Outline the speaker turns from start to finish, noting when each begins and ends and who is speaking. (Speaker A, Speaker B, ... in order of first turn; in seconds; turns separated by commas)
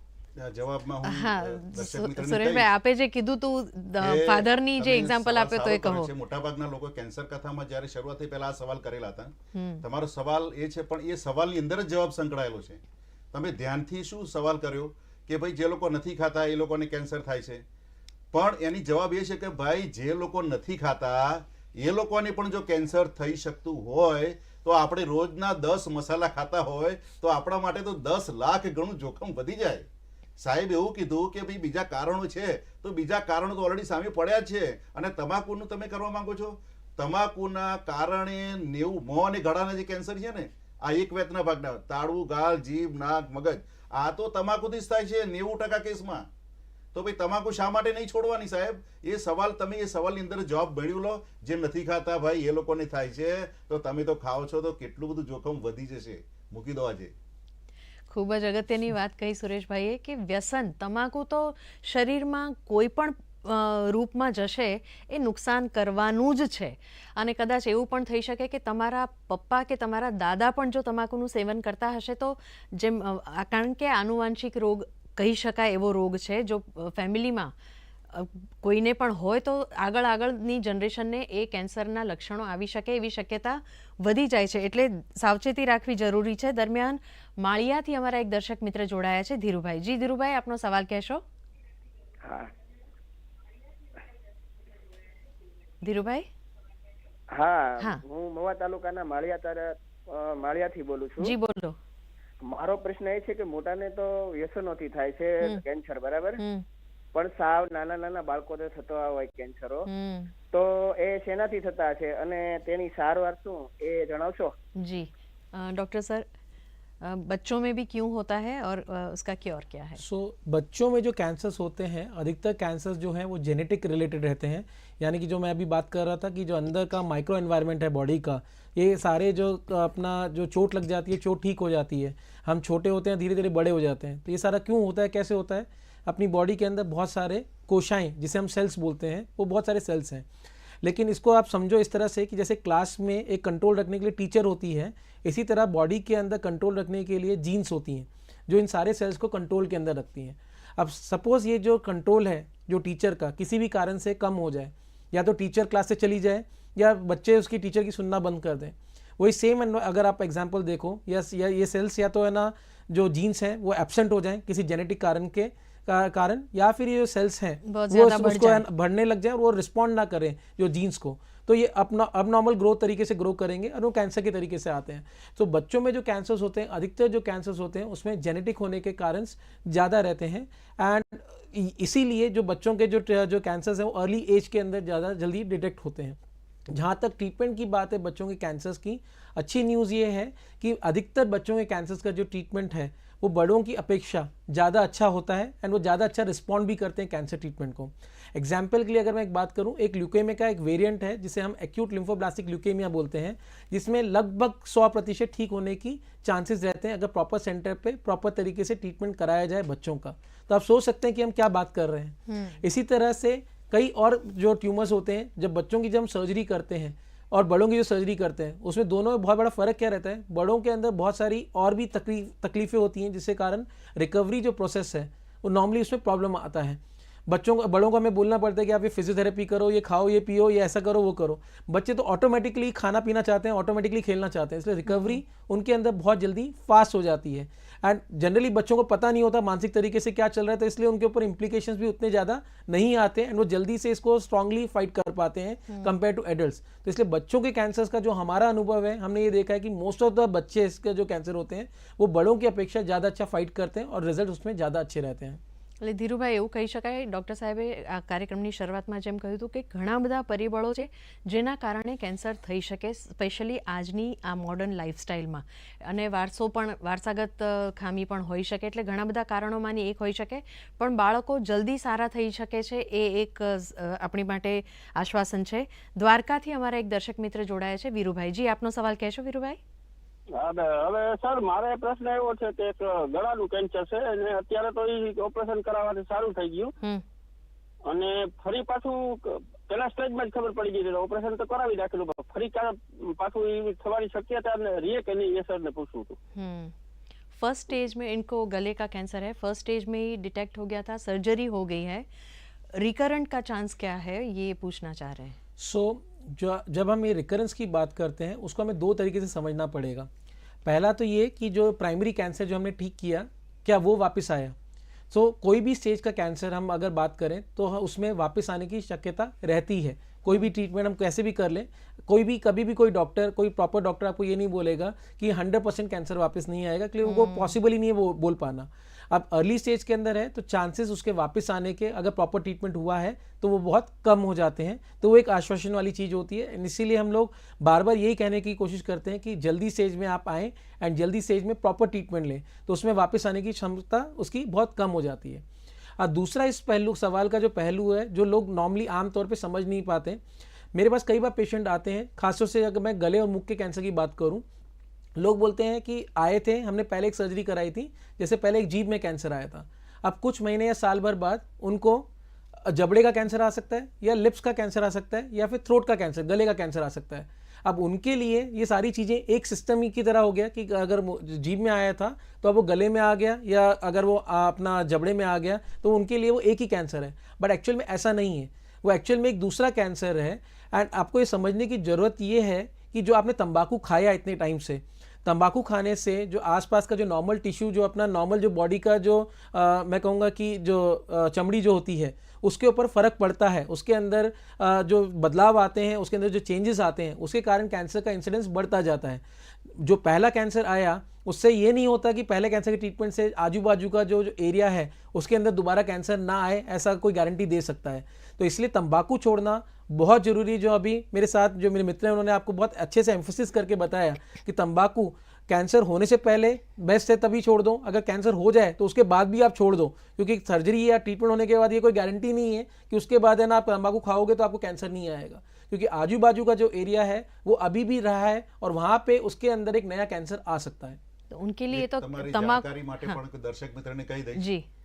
Speaker A: 0.4-2.7, Speaker B: 1.1-6.1, Speaker A: 4.0-12.8, Speaker B: 9.5-9.8, Speaker A: 13.3-17.6, Speaker A: 18.3-29.9, Speaker A: 30.4-46.3, Speaker A: 46.9-57.1, Speaker B: 58.1-77.5, Speaker B: 78.1-91.2, Speaker C: 92.2-92.5, Speaker B: 95.8-96.3, Speaker C: 97.3-101.4, Speaker B: 101.2-101.8, Speaker C: 102.4-106.4, Speaker B: 106.4-106.7, Speaker C: 107.1-109.9, Speaker B: 109.9-110.3, Speaker C: 110.5-114.6, Speaker B: 114.8-116.3, Speaker B: 117.0-120.0, Speaker D: 120.0-140.3, Speaker D: 140.8-186.2, Speaker B: 167.7-168.7, Speaker D: 186.7-255.4, Speaker B: 212.3-212.6, Speaker B: 234.9-235.2, Speaker B: 245.7-245.9, Speaker B: 255.8-279.6, Speaker E: 280.4-286.7, Speaker E: 287.9-296.2, Speaker B: 296.4-296.7, Speaker B: 297.4-302.1, Speaker B: 302.8-305.4, Speaker D: 305.6-310.1, Speaker D: 310.6-314.6, Speaker D: 315.1-345.4, Speaker B: 327.0-327.6, Speaker D: 346.0-350.2, Speaker D: 350.7-354.4, Speaker D: 355.2-362.1, Speaker D: 362.6-431.0, Speaker B: 431.3-433.2, Speaker A: 431.7-434.5, Speaker B: 434.4-434.6